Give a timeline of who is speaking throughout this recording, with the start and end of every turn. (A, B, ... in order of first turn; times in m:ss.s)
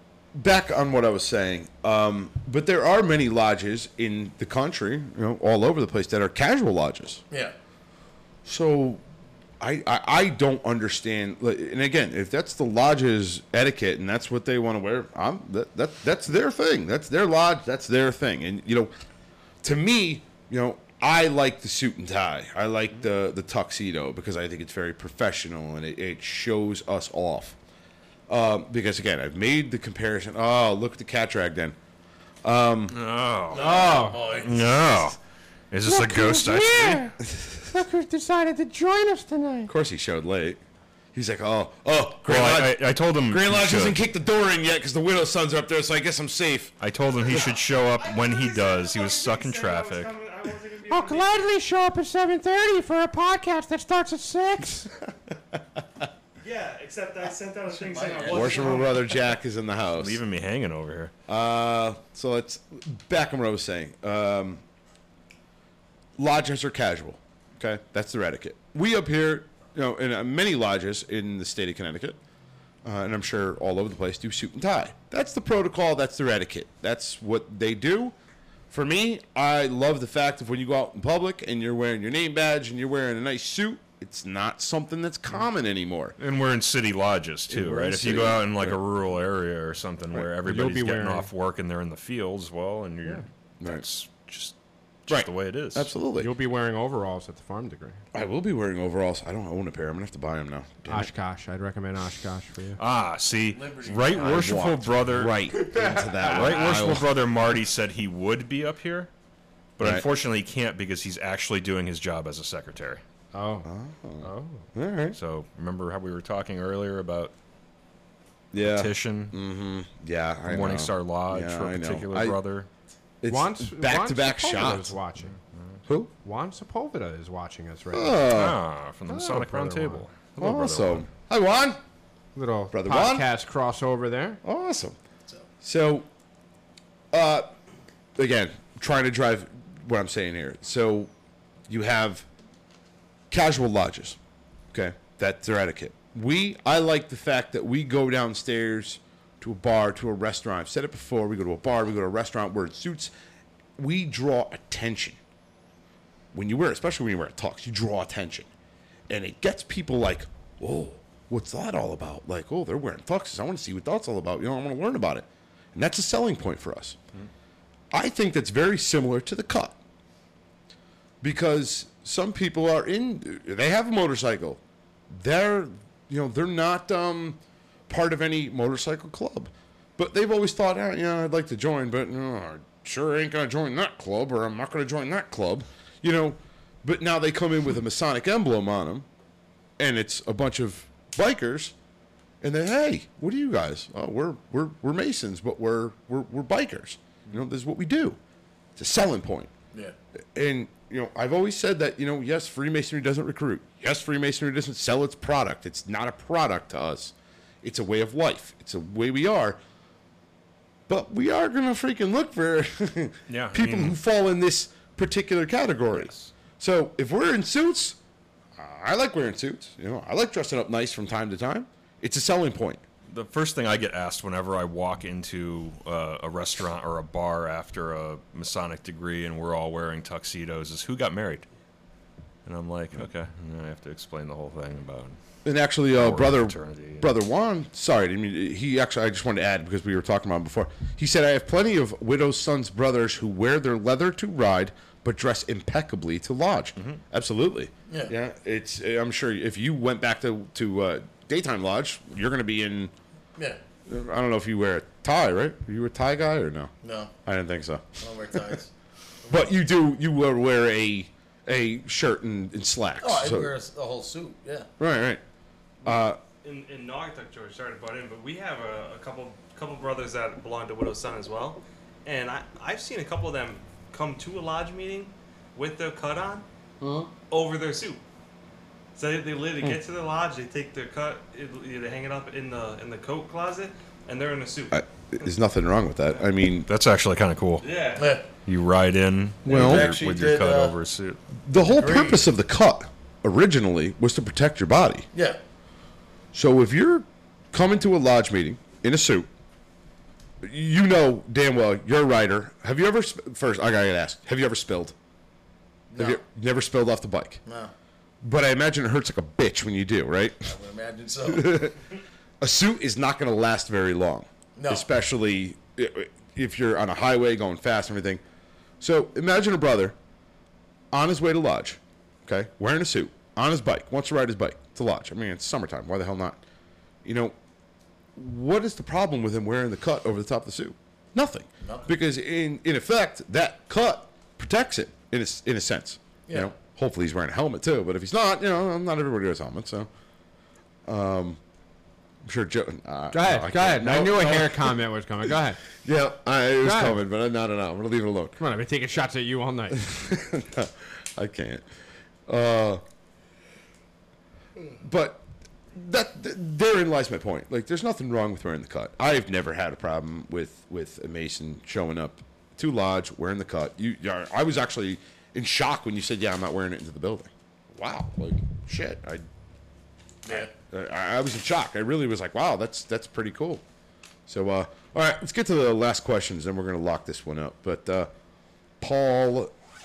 0:00.4-0:07.2 A
0:08.4-0:09.0 A
0:09.6-0:18.9 A
0:19.6-0:27.6 A
0:28.3-0:31.8 A
0:32.4-0:33.0 A
0:32.9-0:35.2 B
0:33.5-0:35.1 C
0:33.5-0:34.4 D
0:35.7-0:37.0 B
0:35.8-0:39.7 D
0:39.7-0:40.6 A
0:41.1-0:46.7 A
0:42.3-0:44.0 B
0:46.8-0:50.1 B
0:48.0-0:51.5 E
0:50.9-0:54.9 D
0:56.4-0:59.2 E
0:57.7-0:59.0 C
0:58.2-1:00.2 A
0:59.9-1:01.1 B
1:01.3-1:04.6 A
1:06.2-1:12.2 A
1:12.8-1:18.1 A
1:18.7-1:26.2 A
1:26.2-1:34.6 B
1:27.5-1:28.8 A
1:30.4-1:31.3 D
1:35.1-1:35.9 B
1:35.1-1:36.3 A
1:36.2-1:38.0 D
1:38.1-1:41.1 A
1:40.9-1:42.8 D
1:42.8-1:45.4 B
1:43.5-1:44.6 C
1:44.1-1:47.1 A
1:45.5-1:46.8 D
1:46.3-1:49.1 B
1:49.8-1:53.0 B
1:49.8-1:50.1 A
1:53.3-1:54.7 D
1:53.6-1:55.2 A
1:55.1-1:57.3 B
1:58.5-2:02.4 A
1:58.6-1:59.4 B
2:00.5-2:02.7 B
2:03.2-2:04.9 A
2:03.3-2:05.3 D
2:05.9-2:06.1 A
2:06.2-2:08.3 D
2:07.9-2:08.6 A
2:08.3-2:11.1 B
2:09.1-2:10.0 D
2:10.4-2:11.8 A
2:12.4-2:14.4 D
2:12.7-2:13.3 A
2:14.4-2:15.0 A
2:15.6-2:16.1 A
2:17.1-2:17.5 A
2:18.2-2:21.1 A
2:21.7-2:22.3 A
2:23.3-2:24.2 A
2:24.7-2:33.1 A
2:33.8-2:35.2 A
2:36.3-2:38.5 A
2:39.1-2:47.0 A
2:47.9-2:49.8 A
2:51.2-3:09.1 A
3:09.8-3:11.7 A
3:12.4-3:18.2 A
3:18.8-3:19.5 A
3:20.4-3:29.6 A
3:30.9-3:38.0 A
3:33.3-3:34.0 B
3:36.0-3:36.3 B
3:38.6-3:42.8 A
3:43.1-3:51.5 B
3:52.4-3:55.2 B
3:55.4-4:12.9 A
3:55.9-3:57.1 B
4:06.8-4:07.0 B
4:07.9-4:08.1 C
4:13.4-4:13.6 C
4:13.9-4:16.7 A
4:16.8-4:17.1 C
4:17.2-4:18.6 A
4:18.0-4:18.7 C
4:19.2-4:19.5 C
4:19.3-4:23.5 A
4:23.0-4:24.7 C
4:24.8-4:25.2 A
4:25.8-4:26.2 A
4:26.0-4:36.4 E
4:36.8-4:37.1 A
4:37.3-4:38.0 E
4:39.0-4:44.8 E
4:44.7-4:46.7 A
4:46.7-4:47.7 B
4:47.6-4:48.2 E
4:48.0-4:48.3 C
4:48.5-4:51.2 B
4:49.5-4:50.0 A
4:49.5-4:50.7 C
4:51.4-4:55.1 A
4:51.6-4:52.2 C
4:55.1-4:55.4 C
4:56.3-4:59.3 A
5:00.4-5:05.0 A
5:05.9-5:06.2 C
5:06.0-5:07.4 A
5:07.5-5:07.7 C
5:08.2-5:10.5 A
5:10.4-5:11.7 C
5:11.2-5:11.8 A
5:12.4-5:18.2 A
5:14.6-5:14.8 C
5:18.8-5:20.0 A
5:20.9-5:26.4 A
5:27.0-5:27.4 A
5:28.2-5:39.9 A
5:31.6-5:31.9 C
5:36.3-5:36.5 C
5:40.9-5:41.4 A
5:42.2-5:48.4 A
5:43.1-5:45.6 D
5:46.6-5:47.0 D
5:48.4-5:49.9 D
5:49.8-5:51.6 A
5:52.3-5:52.8 A
5:54.8-6:09.2 A
6:10.2-6:10.5 C
6:10.3-6:13.6 A
6:14.3-6:18.1 A
6:18.8-6:19.5 A